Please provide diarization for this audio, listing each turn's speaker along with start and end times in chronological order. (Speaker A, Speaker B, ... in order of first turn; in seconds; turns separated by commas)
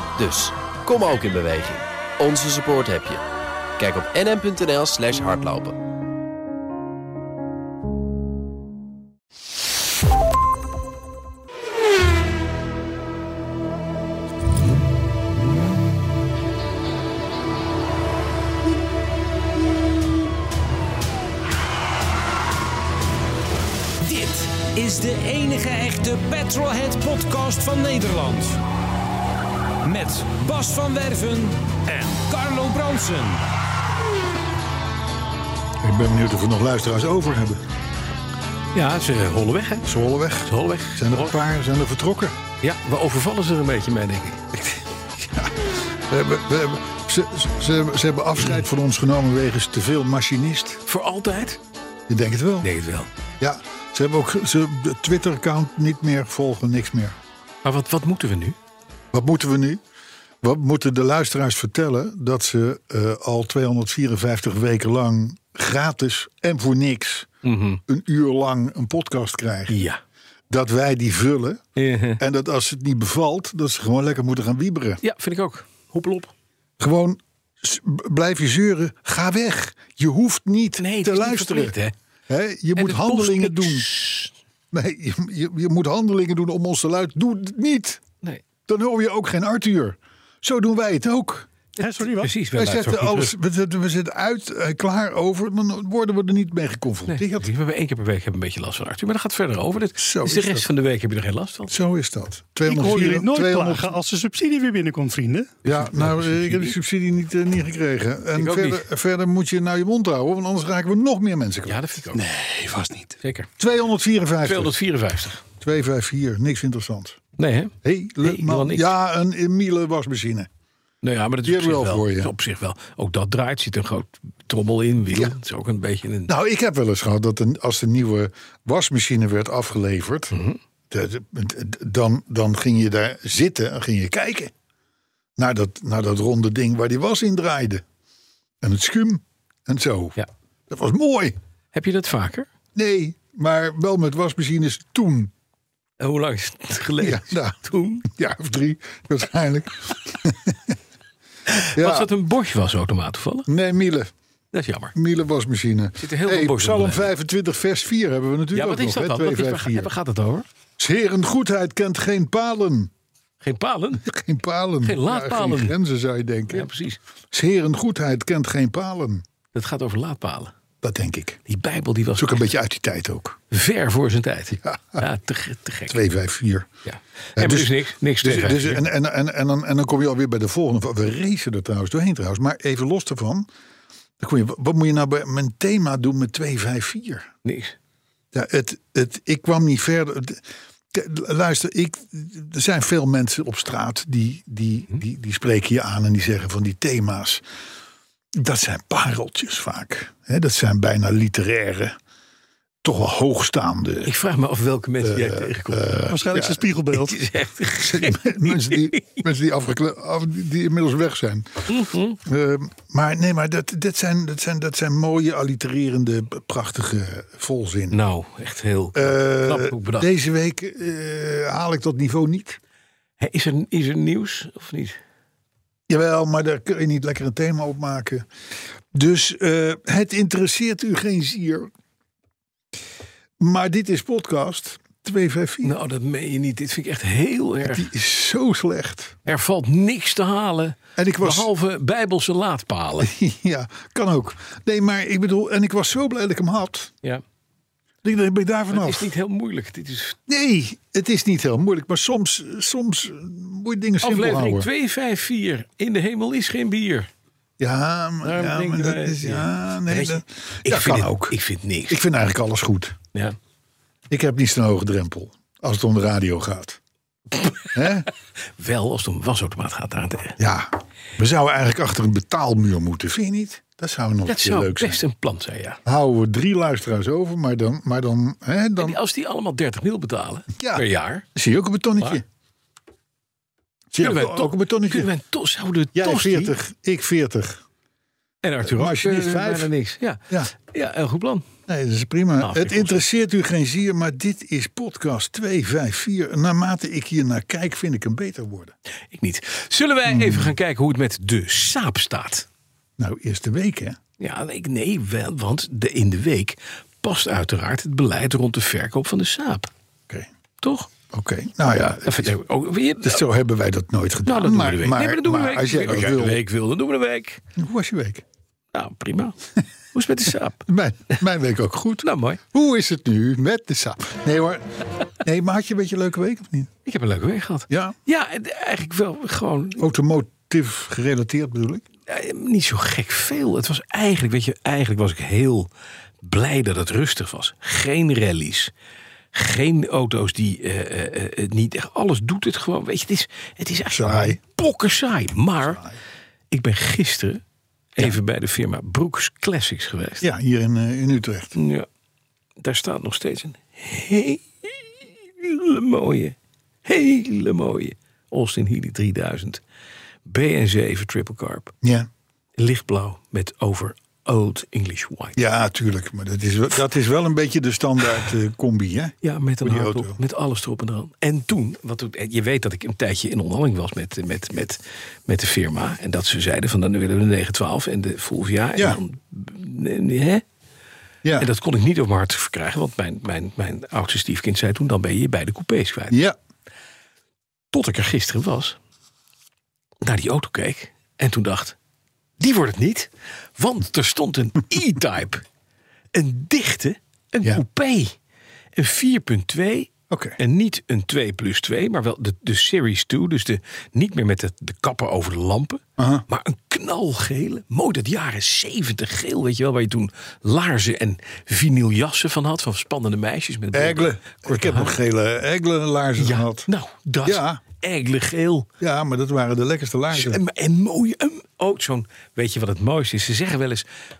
Speaker A: 0.2-3.2, Speaker A: 3.8-5.8, Speaker B: 24.0-28.6, Speaker B: 29.8-33.5, Speaker C: 35.8-37.6, Speaker D: 38.7-39.9, Speaker C: 39.8-42.4, Speaker D: 40.4-41.4, Speaker D: 42.6-44.4, Speaker C: 44.5-50.8, Speaker D: 50.9-51.6, Speaker C: 52.1-52.7, Speaker D: 52.6-53.1, Speaker C: 53.4-57.2, Speaker D: 57.6-58.6, Speaker C: 59.1-59.8, Speaker C: 60.4-67.3, Speaker D: 67.4-67.8, Speaker C: 67.9-69.8, Speaker D: 69.7-70.0, Speaker C: 70.5-71.6, Speaker D: 71.8-72.2, Speaker C: 72.2-75.0, Speaker D: 75.0-76.3, Speaker C: 76.8-81.8, Speaker D: 80.8-81.9, Speaker C: 82.3-83.9, Speaker D: 82.8-84.3, Speaker C: 84.7-88.0, Speaker C: 88.7-91.5, Speaker E: 91.8-92.3, Speaker D: 91.8-93.3, Speaker C: 92.5-97.5, Speaker D: 97.1-101.7, Speaker C: 100.0-100.7, Speaker C: 101.7-104.0, Speaker E: 102.6-105.6, Speaker C: 105.6-112.0, Speaker D: 105.7-106.7, Speaker D: 108.3-108.8, Speaker D: 111.6-112.2, Speaker E: 112.1-113.2, Speaker D: 113.2-113.5, Speaker C: 113.6-114.8, Speaker D: 114.4-115.4, Speaker C: 115.6-117.2, Speaker D: 117.4-118.9, Speaker C: 117.8-120.5, Speaker D: 121.0-126.3, Speaker C: 121.4-122.3, Speaker C: 125.1-125.3, Speaker C: 126.3-130.3, Speaker D: 130.3-130.6, Speaker C: 130.9-134.5, Speaker C: 135.4-137.8, Speaker C: 138.6-140.2, Speaker C: 140.7-141.3, Speaker D: 141.7-142.5, Speaker C: 142.7-145.3, Speaker D: 146.0-148.1, Speaker C: 147.0-150.8, Speaker D: 151.5-153.5, Speaker C: 151.7-152.1, Speaker C: 153.5-154.1, Speaker D: 154.5-154.9, Speaker C: 154.9-159.9, Speaker D: 156.0-157.1, Speaker D: 158.5-160.4, Speaker C: 160.8-162.9, Speaker D: 163.4-164.1, Speaker C: 164.0-166.7, Speaker D: 164.8-165.7, Speaker D: 166.5-167.0, Speaker C: 167.3-169.2, Speaker D: 169.5-170.5, Speaker C: 170.8-171.4, Speaker D: 171.5-172.4, Speaker C: 172.2-173.4, Speaker D: 173.5-176.0, Speaker C: 174.6-175.1, Speaker C: 175.9-176.7, Speaker D: 176.8-178.8, Speaker C: 177.3-183.5, Speaker C: 184.2-187.3, Speaker D: 187.4-187.7, Speaker C: 188.3-190.4, Speaker C: 190.9-197.4, Speaker C: 198.3-201.9, Speaker C: 202.8-204.1, Speaker D: 204.0-205.9, Speaker C: 205.0-206.7, Speaker E: 206.1-207.2, Speaker D: 206.9-209.2, Speaker C: 207.8-211.7, Speaker D: 211.7-212.2, Speaker C: 212.2-218.0, Speaker D: 217.9-220.1, Speaker C: 218.9-222.6, Speaker D: 223.2-225.0, Speaker C: 225.9-228.3, Speaker C: 228.9-231.7, Speaker C: 233.4-235.7, Speaker D: 235.6-237.9, Speaker C: 237.6-239.2, Speaker D: 239.2-243.1, Speaker C: 240.9-241.5, Speaker C: 243.0-246.9, Speaker C: 248.0-249.1, Speaker D: 248.7-250.2, Speaker C: 250.3-254.7, Speaker D: 254.0-257.1, Speaker C: 257.6-261.4, Speaker D: 258.2-262.0, Speaker C: 261.9-262.9, Speaker C: 264.1-266.8, Speaker C: 267.7-268.1, Speaker D: 268.6-270.4, Speaker C: 270.4-275.0, Speaker D: 274.3-275.8, Speaker C: 275.9-279.0, Speaker D: 278.8-281.2, Speaker C: 280.6-282.2, Speaker C: 283.9-285.1, Speaker D: 284.0-286.5, Speaker C: 285.9-287.6, Speaker D: 288.4-291.4, Speaker C: 288.6-289.7, Speaker C: 291.7-298.7, Speaker D: 292.4-293.0, Speaker D: 299.1-302.5, Speaker C: 300.1-300.5, Speaker C: 303.0-304.0, Speaker D: 304.2-309.7, Speaker D: 310.6-310.9, Speaker C: 311.1-312.3, Speaker D: 311.7-313.2, Speaker C: 313.0-316.4, Speaker D: 314.2-317.4, Speaker C: 317.6-318.2, Speaker D: 318.7-319.4, Speaker D: 319.9-320.7, Speaker C: 320.6-326.7, Speaker D: 322.0-322.4, Speaker D: 326.8-329.8, Speaker C: 327.7-327.9, Speaker C: 329.8-331.8, Speaker D: 332.1-335.7, Speaker D: 336.2-338.7, Speaker D: 339.3-345.8, Speaker C: 343.9-344.4, Speaker C: 345.6-346.0, Speaker D: 346.5-347.4, Speaker D: 347.9-350.2, Speaker C: 350.2-351.6, Speaker D: 351.5-351.9, Speaker D: 352.6-359.6, Speaker D: 360.2-361.7, Speaker C: 361.8-362.1, Speaker D: 362.6-365.4, Speaker C: 365.4-370.1, Speaker D: 369.2-380.4, Speaker C: 381.2-381.5, Speaker D: 381.4-386.2, Speaker C: 386.1-386.4, Speaker D: 387.7-388.8, Speaker D: 390.0-391.8, Speaker D: 392.4-395.4, Speaker D: 396.1-398.1, Speaker D: 398.7-414.9, Speaker C: 400.1-400.4, Speaker C: 406.0-406.2, Speaker C: 413.7-416.7, Speaker D: 416.2-418.7, Speaker C: 417.2-417.6, Speaker C: 418.8-420.4, Speaker D: 420.1-423.9